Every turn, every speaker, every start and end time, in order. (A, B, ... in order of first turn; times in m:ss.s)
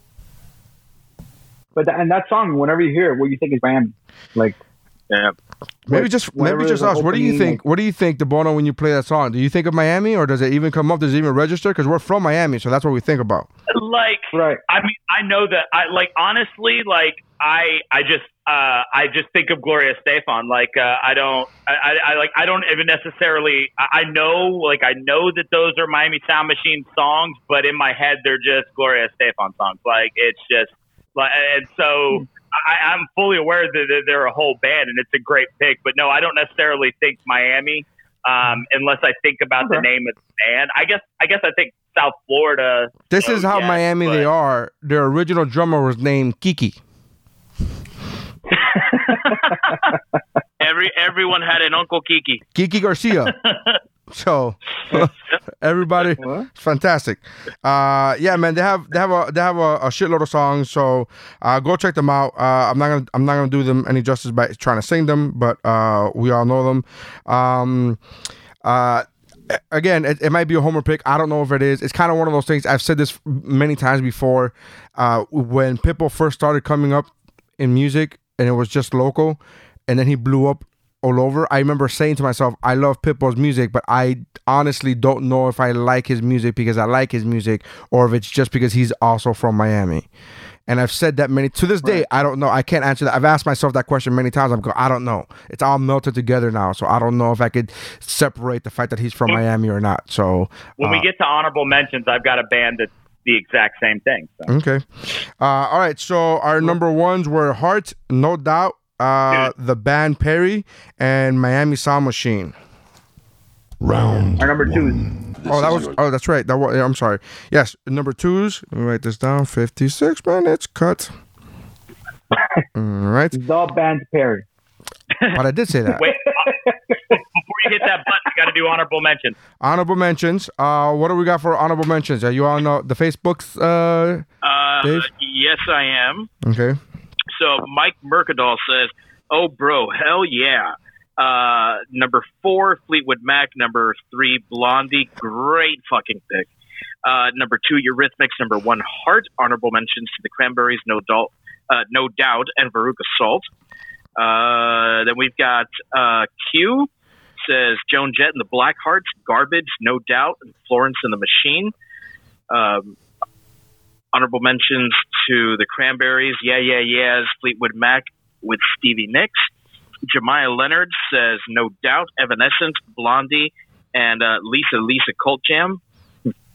0:01.8-0:04.6 A
0:05.1-0:05.3 B
0:05.8-0:13.5 C
0:05.9-0:07.6 A
0:13.7-0:44.3 D
0:14.3-0:14.6 A
0:43.1-0:46.8 C
0:48.7-0:49.2 A
0:49.1-0:49.8 D
0:50.6-0:52.4 B
0:52.5-0:53.3 C
0:53.4-0:53.8 D
0:54.1-1:08.0 C
0:56.2-0:56.5 A
1:08.6-1:30.0 C
1:30.7-1:41.1 C
1:40.8-1:44.5 D
1:44.5-1:44.8 C
1:45.4-1:52.5 C
1:53.8-1:56.0 E
1:54.4-1:55.0 A
1:55.4-2:01.1 C
2:02.7-2:03.4 C
2:03.3-2:04.4 A
2:05.2-2:06.6 D
2:05.3-2:06.0 C
2:06.4-2:07.0 A
2:07.1-2:09.4 D
2:09.6-2:14.3 C
2:14.4-2:16.3 B
2:14.8-2:15.1 C
2:16.4-2:16.8 C
2:17.3-2:26.5 B
2:27.0-2:33.5 B
2:34.2-2:36.9 B
2:37.4-2:41.7 B
2:42.5-2:43.0 B
2:44.1-2:49.5 B
2:50.0-2:55.8 B